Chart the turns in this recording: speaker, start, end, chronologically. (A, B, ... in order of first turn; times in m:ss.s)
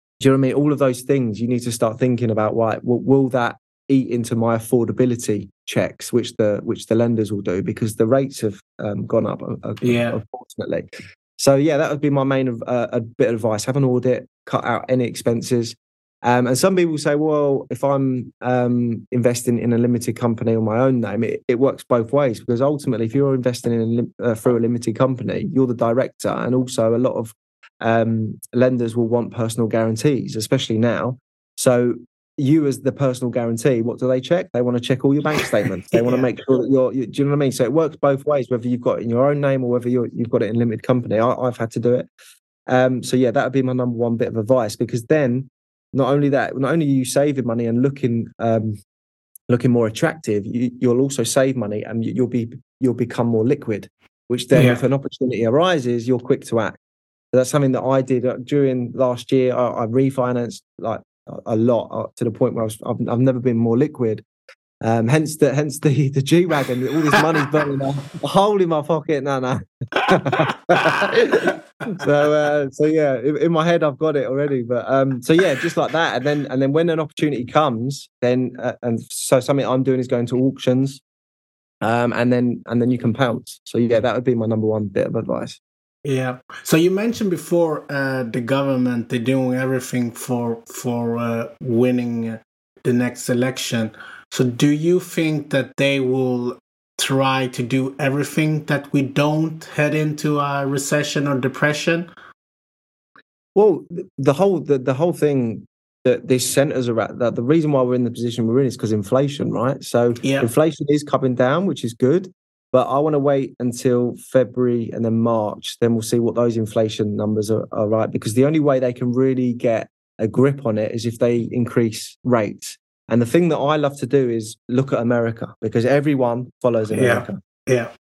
0:00.2-0:42.1 A
0:09.8-0:10.2 B
0:35.9-0:36.3 B
0:42.7-0:48.8 A
0:49.5-0:56.8 A
0:54.5-0:54.8 B
0:57.3-1:04.2 A
1:04.8-1:21.0 A
1:10.0-1:12.0 B
1:21.8-1:25.6 A
1:26.0-1:42.1 B
1:43.6-2:07.4 A
1:50.2-1:50.5 B
2:06.9-2:07.9 B